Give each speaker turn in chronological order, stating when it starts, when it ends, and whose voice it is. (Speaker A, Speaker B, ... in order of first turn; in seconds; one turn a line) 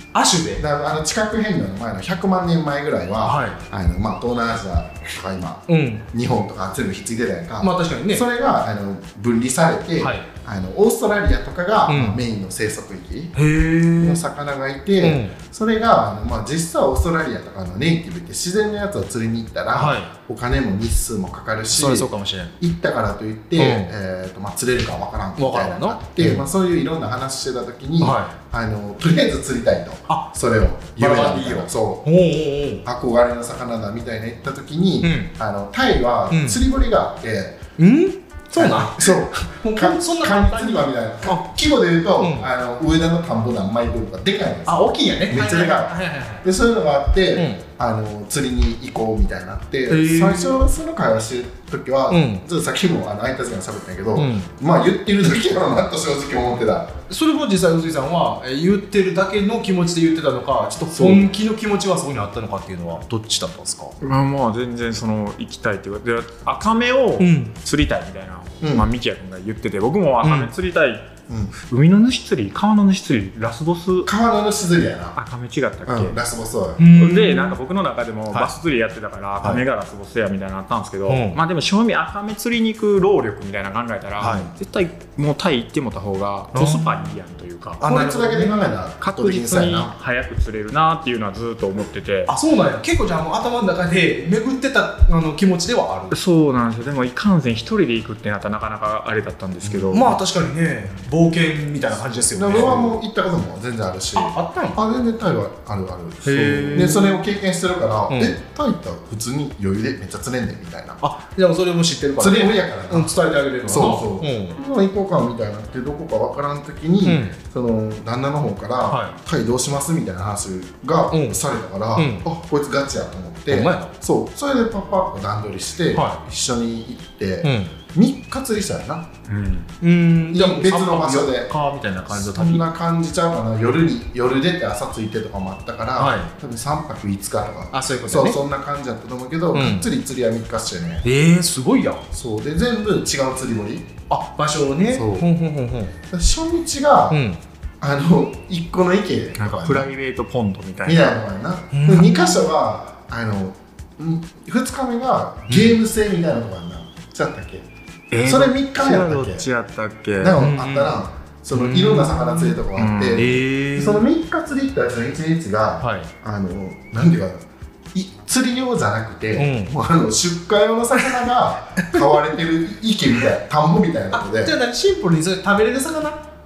Speaker A: 0.1-0.6
Speaker B: 0.6-13.3
Speaker A: 3.2-3.6
Speaker A: 5.7-6.0
Speaker A: 7.6-8.3
Speaker A: 10.0-10.3
Speaker A: 11.9-12.2
Speaker A: 13.3-14.2
Speaker B: 14.0-32.0
Speaker A: 15.0-15.4
Speaker A: 19.7-20.1
Speaker A: 21.7-22.5
Speaker A: 23.6-23.9
Speaker A: 25.4-26.5
Speaker A: 28.0-28.4
Speaker A: 31.0-32.9
Speaker B: 32.8-37.6
Speaker A: 35.0-35.3
Speaker A: 36.3-36.6
Speaker A: 37.8-41.5
Speaker B: 38.5-56.9
Speaker A: 42.2-42.5
Speaker A: 44.7-46.5
Speaker A: 47.4-47.6
Speaker A: 49.9-50.6
Speaker A: 52.1-52.4
Speaker A: 54.2-54.5
Speaker A: 57.1-63.9
Speaker C: 64.0-71.2
Speaker A: 67.2-67.5
Speaker B: 68.6-68.9
Speaker A: 70.2-70.5
Speaker B: 71.3-71.5
Speaker C: 71.7-74.1
Speaker B: 74.1-75.2
Speaker C: 75.2-76.2
Speaker B: 75.9-76.8
Speaker A: 76.8-77.6
Speaker C: 76.9-87.8
Speaker A: 81.1-81.4
Speaker A: 84.2-84.5
Speaker B: 84.2-84.5
Speaker A: 86.5-87.0
Speaker A: 87.8-88.7
Speaker B: 87.8-89.9
Speaker C: 89.0-92.3
Speaker A: 92.3-96.2
Speaker C: 96.1-100.2
Speaker B: 99.6-100.1
Speaker A: 99.9-102.9
Speaker B: 102.3-111.0
Speaker A: 104.2-104.8
Speaker A: 106.2-107.1
Speaker A: 108.1-108.4
Speaker A: 111.0-114.6
Speaker B: 112.2-129.1
Speaker A: 117.0-117.4
Speaker A: 118.8-119.2
Speaker A: 121.1-121.4
Speaker A: 122.0-122.3
Speaker A: 123.5-123.9
Speaker A: 125.9-126.2
Speaker A: 127.4-127.8
Speaker C: 129.3-129.7
Speaker A: 129.8-132.6
Speaker B: 130.3-131.5
Speaker B: 132.1-141.1
Speaker A: 136.0-136.3
Speaker A: 137.7-138.4
Speaker A: 139.5-139.9
Speaker A: 141.0-142.1
Speaker B: 142.1-143.9
Speaker A: 144.1-145.9
Speaker B: 144.9-145.3
Speaker B: 146.1-147.2
Speaker A: 147.1-147.4
Speaker B: 147.8-149.9
Speaker C: 149.4-151.2
Speaker B: 150.8-157.7
Speaker A: 151.7-152.5
Speaker C: 155.5-155.8
Speaker C: 158.1-161.0
Speaker B: 158.2-159.5
Speaker A: 158.8-159.3
Speaker B: 160.2-174.5
Speaker A: 161.5-162.6
Speaker C: 162.8-163.3
Speaker A: 163.2-164.0
Speaker A: 165.8-166.1
Speaker A: 169.4-169.7
Speaker A: 174.1-176.2